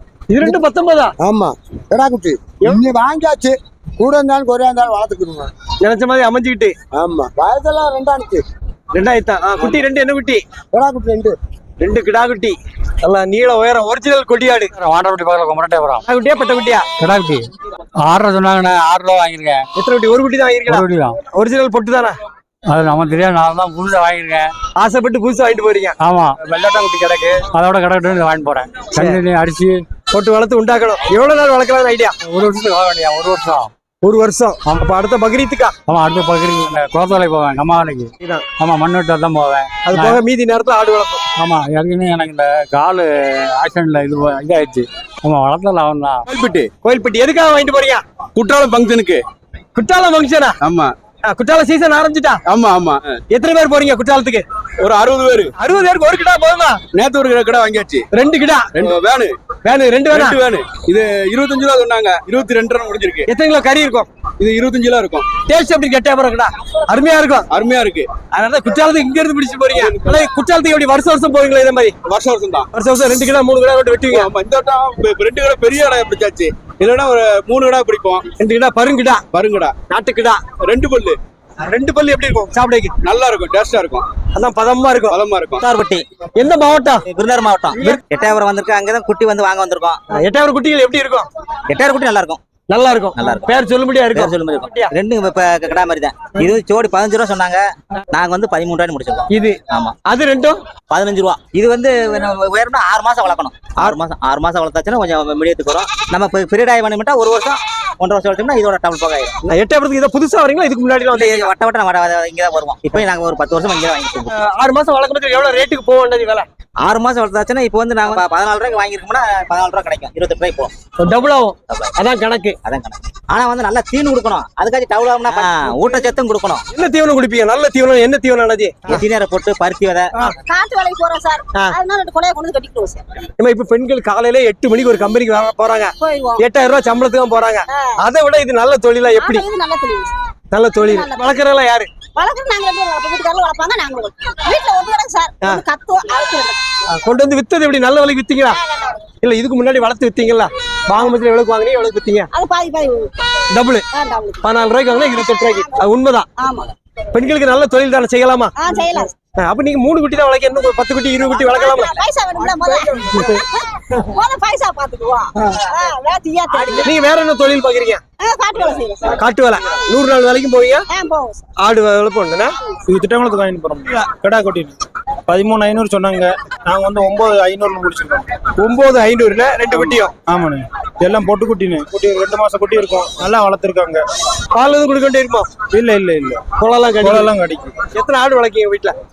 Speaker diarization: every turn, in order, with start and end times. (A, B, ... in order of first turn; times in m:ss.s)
0:00.3-0:01.1 A
0:01.2-0:05.5 B
0:05.8-0:06.7 A
0:06.9-0:08.4 B
0:08.9-0:10.4 A
0:10.7-0:11.4 B
0:11.8-0:14.7 A
0:14.8-0:16.0 C
0:16.0-0:16.9 A
0:17.0-0:19.6 C
0:19.8-0:22.2 A
0:20.7-0:21.2 C
0:22.7-0:24.5 C
0:24.8-0:26.0 A
0:26.0-0:29.8 C
0:28.9-0:29.2 A
0:30.1-0:32.1 A
0:32.2-0:33.7 C
0:34.0-0:35.7 A
0:35.9-0:40.2 C
0:39.8-0:41.2 A
0:41.4-0:46.3 C
0:46.3-0:46.7 D
0:46.8-0:48.0 A
0:48.4-0:49.2 D
0:49.7-0:50.5 A
0:50.6-0:50.9 D
0:51.3-0:52.4 A
0:52.5-0:53.2 D
0:53.3-0:54.4 A
0:54.8-0:55.5 D
0:55.6-0:56.8 A
0:56.9-0:58.0 D
0:58.1-0:58.7 A
0:58.7-0:59.4 D
0:59.6-1:00.4 A
1:00.1-1:03.2 D
1:03.3-1:04.1 A
1:04.4-1:05.3 D
1:05.4-1:07.4 A
1:07.5-1:08.1 D
1:08.3-1:11.9 A
1:09.7-1:10.3 D
1:12.0-1:12.7 D
1:12.7-1:14.3 A
1:14.1-1:18.2 D
1:18.4-1:19.2 A
1:19.3-1:19.7 D
1:19.9-1:20.4 A
1:20.6-1:21.2 D
1:21.6-1:22.9 A
1:23.0-1:24.0 D
1:24.3-1:25.2 A
1:25.1-1:25.7 D
1:25.6-1:26.0 E
1:26.4-1:27.0 A
1:27.1-1:30.0 E
1:30.1-1:31.3 A
1:31.7-1:32.4 E
1:32.7-1:34.9 A
1:33.2-1:33.5 E
1:34.1-1:39.9 E
1:39.3-1:40.6 A
1:40.9-1:49.4 E
1:49.5-1:51.5 A
1:51.1-1:54.3 E
1:54.3-1:56.4 A
1:56.8-2:00.7 E
2:01.0-2:02.5 A
2:02.6-2:06.6 E
2:06.7-2:09.0 A
2:08.9-2:10.3 E
2:10.5-2:13.0 F
2:13.4-2:19.5 A
2:16.0-2:16.3 F
2:19.2-2:20.1 F
2:20.5-2:21.9 A
2:20.8-2:21.2 F
2:22.2-2:26.6 F
2:26.9-2:28.6 A
2:29.2-2:32.3 A
2:32.3-2:33.1 F
2:33.5-2:33.8 A
2:33.9-2:34.4 F
2:34.4-2:36.3 A
2:35.1-2:35.8 F
2:37.1-2:38.5 A
2:38.6-2:39.1 F
2:39.4-2:42.0 A
2:41.3-2:46.7 F
2:46.8-2:48.0 A
2:48.2-2:49.0 F
2:49.0-2:50.9 A
2:50.9-2:51.4 F
2:51.6-2:52.5 A
2:52.9-2:54.7 G
2:55.3-2:58.2 G
2:58.6-3:00.1 A
2:59.7-3:04.0 G
3:04.5-3:05.5 A
3:05.7-3:06.4 G
3:06.6-3:07.3 A
3:07.0-3:07.7 G
3:07.9-3:08.9 A